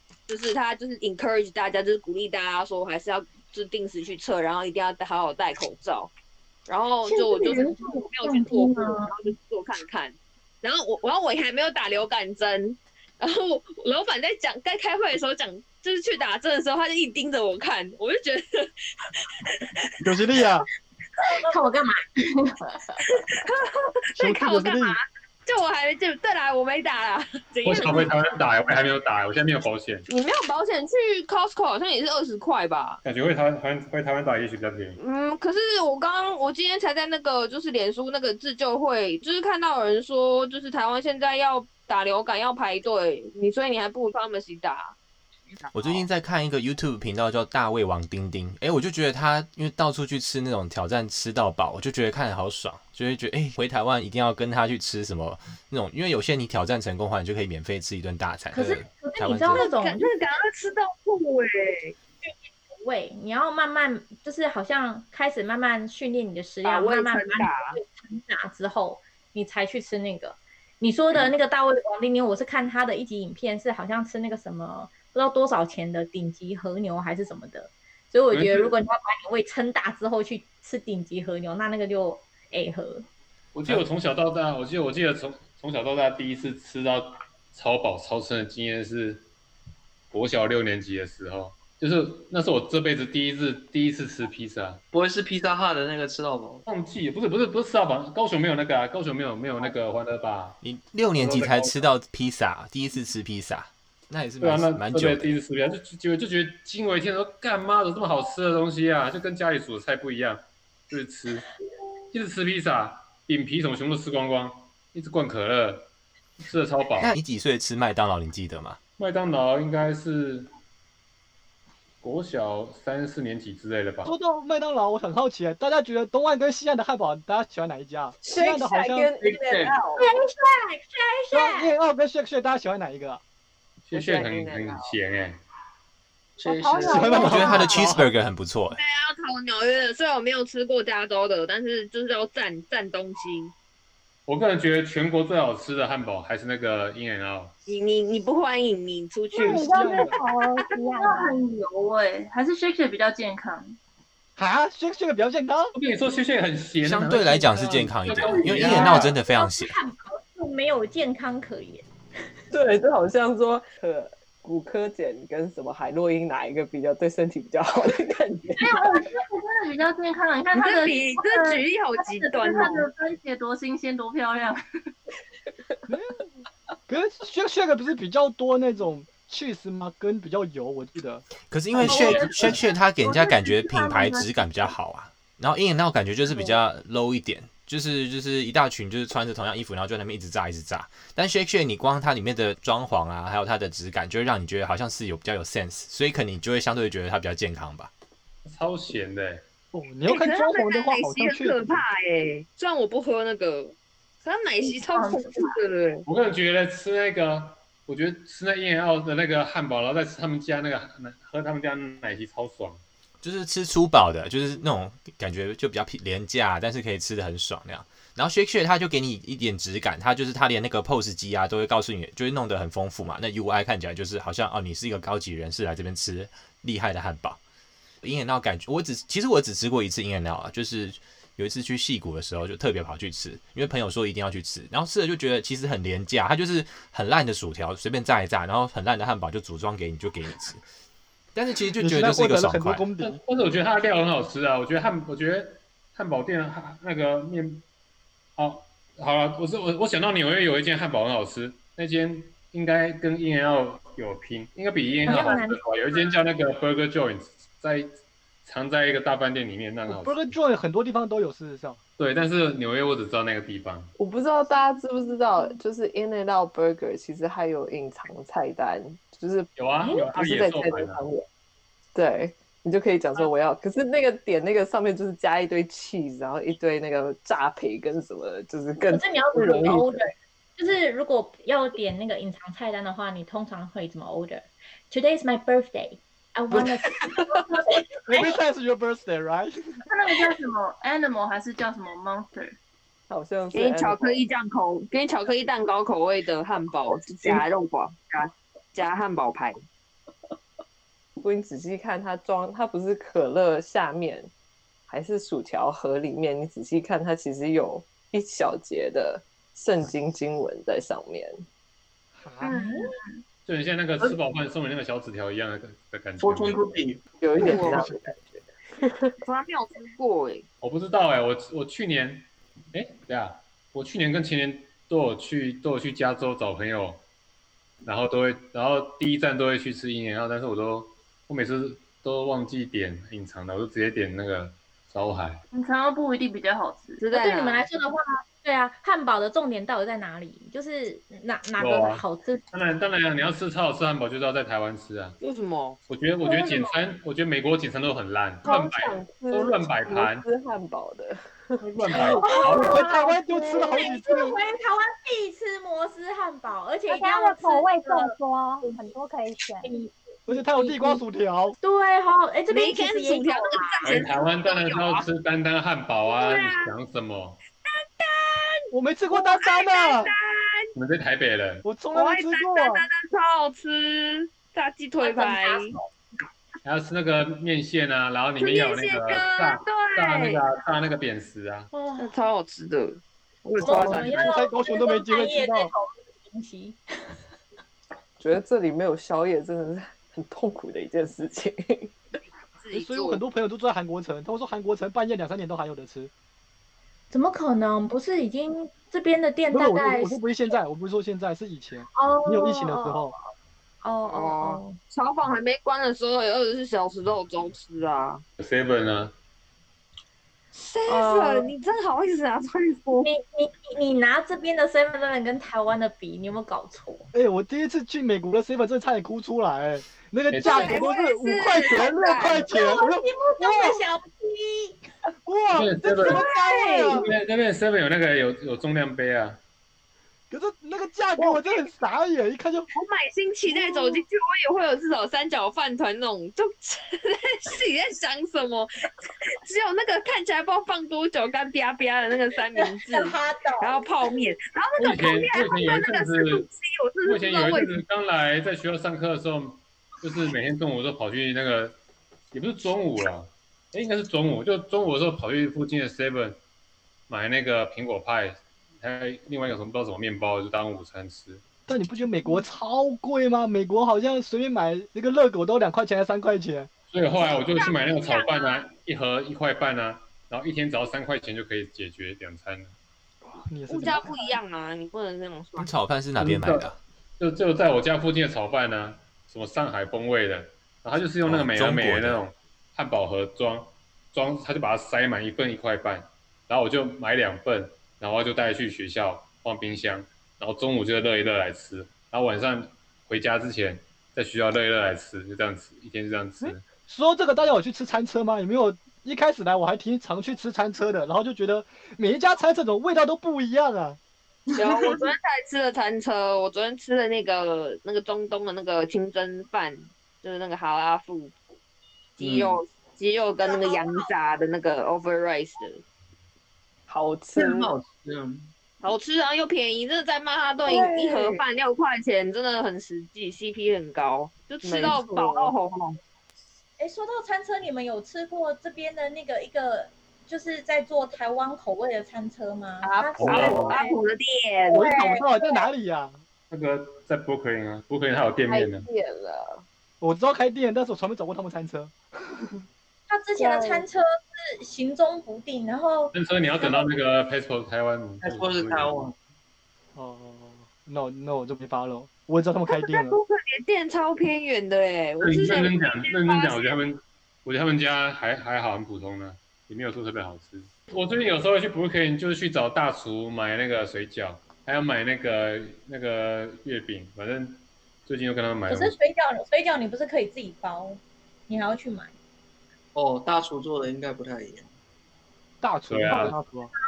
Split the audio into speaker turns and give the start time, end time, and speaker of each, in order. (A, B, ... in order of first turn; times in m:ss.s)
0:00.3-0:06.1 A
0:06.7-0:19.9 A
0:07.0-0:09.1 B
0:20.0-0:20.6 C
0:21.4-0:22.5 B
0:23.1-0:28.1 A
0:24.2-0:25.0 C
0:27.6-0:30.1 D
0:30.1-0:33.0 A
0:33.0-0:35.0 D
0:35.0-0:45.0 A
0:45.7-0:59.6 E
0:58.5-1:00.1 B
0:59.5-1:01.9 A
1:02.2-1:23.0 B
1:06.6-1:07.8 A
1:18.3-1:18.7 D
1:23.5-1:29.3 D
1:30.1-1:34.8 D
1:34.9-1:36.6 F
1:36.6-1:40.6 D
1:40.6-1:45.4 E
1:41.2-1:41.9 D
1:44.4-1:51.4 D
1:52.1-1:57.2 D
1:57.0-1:58.8 E
1:59.0-2:00.5 D
2:02.0-2:04.1 D
2:04.0-2:09.1 C
2:08.2-2:10.1 G
2:09.1-2:09.8 F
2:10.0-2:11.7 B
2:11.3-2:13.2 C
2:13.8-2:15.4 D
2:13.9-2:15.0 G
2:16.4-2:18.0 F
2:16.4-2:17.9 H
2:16.8-2:18.0 C
2:17.2-2:18.8 E
2:18.8-2:23.5 A
2:24.2-2:27.5 D
2:27.7-2:30.2 A
2:29.3-2:30.2 C
2:29.3-2:31.4 H
2:31.0-2:33.8 I
2:34.4-2:35.7 C
2:35.7-2:39.1 D
2:36.8-2:39.7 E
2:38.2-2:41.8 B
2:42.5-2:48.8 G
2:48.5-2:54.6 I
2:50.5-2:52.9 A
2:55.9-2:56.2 C
2:56.9-3:01.2 C
3:01.5-3:17.9 E
3:01.8-3:04.4 I
3:18.4-3:19.4 D
3:19.7-3:21.8 C
3:20.1-3:26.0 A
3:24.7-3:25.5 I
3:26.1-3:32.8 D
3:33.2-3:47.4 E
3:48.0-4:00.6 E
4:01.3-4:02.9 E
4:01.8-4:03.2 C
4:03.0-4:07.6 D
4:08.4-4:20.3 D
4:15.0-4:15.6 B
4:19.9-4:21.8 C
4:22.0-4:23.9 D
4:24.0-4:31.3 G
4:29.6-4:31.0 D
4:31.9-4:40.0 G
4:38.9-4:48.3 B
4:46.5-4:47.4 G
4:48.1-4:49.5 C
4:49.9-4:52.5 I
4:53.1-4:54.2 G
4:53.5-4:59.6 A
5:01.2-5:04.3 G
5:04.9-5:11.4 G
5:12.2-5:12.6 C
5:12.4-5:12.7 B
5:13.4-5:16.7 D
5:16.2-5:17.0 F
5:17.2-5:19.1 G
5:17.4-5:17.8 A
5:19.2-5:20.4 A
5:20.6-5:27.0 D
5:27.8-5:35.4 D
5:35.5-5:37.0 I
5:37.0-5:37.6 A
5:37.1-5:42.4 B
5:41.6-5:45.2 D
5:45.2-5:45.8 A
5:45.9-5:50.2 D
5:46.3-5:46.6 A
5:48.4-5:52.3 G
5:51.6-5:52.8 D
5:51.9-5:58.8 B
5:52.4-5:54.4 C
5:56.9-5:59.7 H
5:59.6-6:01.0 B
6:00.3-6:01.6 C
6:01.6-6:04.0 B
6:02.5-6:05.0 A
6:03.8-6:07.4 D
6:06.0-6:06.7 A
6:07.6-6:10.6 A
6:08.7-6:10.1 C
6:10.8-6:11.7 D
6:11.6-6:12.8 C
6:11.9-6:15.8 A
6:15.0-6:15.9 B
6:16.6-6:21.7 D
6:18.4-6:20.4 A
6:21.7-6:22.1 B
6:22.0-6:24.3 A
6:23.6-6:26.8 B
6:23.6-6:25.7 C
6:28.2-6:32.0 G
6:32.6-6:33.2 A
6:32.7-6:36.1 C
6:37.1-6:40.2 B
6:39.5-6:43.1 C
6:41.9-6:43.1 B
6:43.8-6:44.8 B
6:44.1-6:48.2 A
6:48.4-6:49.1 D
6:50.5-6:53.1 A
6:50.9-6:51.5 B
6:53.0-6:57.1 B
6:57.1-7:03.8 C
7:00.3-7:00.8 D
7:00.4-7:02.4 A
7:02.2-7:04.8 B
7:05.2-7:07.1 C
7:05.5-7:06.2 D
7:06.0-7:07.0 B
7:06.5-7:06.9 A
7:06.9-7:09.4 D
7:10.3-7:12.7 C
7:12.7-7:18.7 A
7:13.5-7:14.0 B
7:19.4-7:27.7 A
7:22.6-7:24.1 B
7:24.8-7:26.4 D
7:27.0-7:31.8 D
7:32.3-7:36.4 D
7:37.1-7:41.4 D
7:41.7-7:46.7 C
7:46.9-7:52.8 D
7:47.2-7:48.6 A
7:53.3-7:54.1 C
7:53.7-7:55.7 A
7:55.6-7:56.8 E
7:56.2-8:16.6 D
8:01.2-8:02.2 E
8:16.4-8:24.0 C
8:24.6-8:31.3 A
8:32.2-8:35.8 A
8:32.2-8:32.6 F
8:33.4-8:34.1 B
8:36.9-8:37.7 G
8:37.4-8:38.5 F
8:38.8-8:46.0 A
8:40.6-8:41.4 G
8:44.6-8:45.5 G
8:46.8-8:54.0 B
8:52.9-8:54.8 A
8:53.2-8:53.7 D
8:54.7-8:55.6 B
8:54.7-8:56.2 C
8:56.5-8:58.9 D
8:58.4-8:59.6 G
9:00.0-9:02.6 C
9:03.1-9:06.8 B
9:03.4-9:03.8 G
9:06.1-9:09.0 D
9:08.2-9:09.2 F
9:10.0-9:13.2 C
9:12.7-9:16.8 A
9:15.2-9:29.0 D
9:28.7-9:32.1 B
9:32.9-9:34.7 F
9:35.6-9:36.7 C
9:35.9-9:36.4 D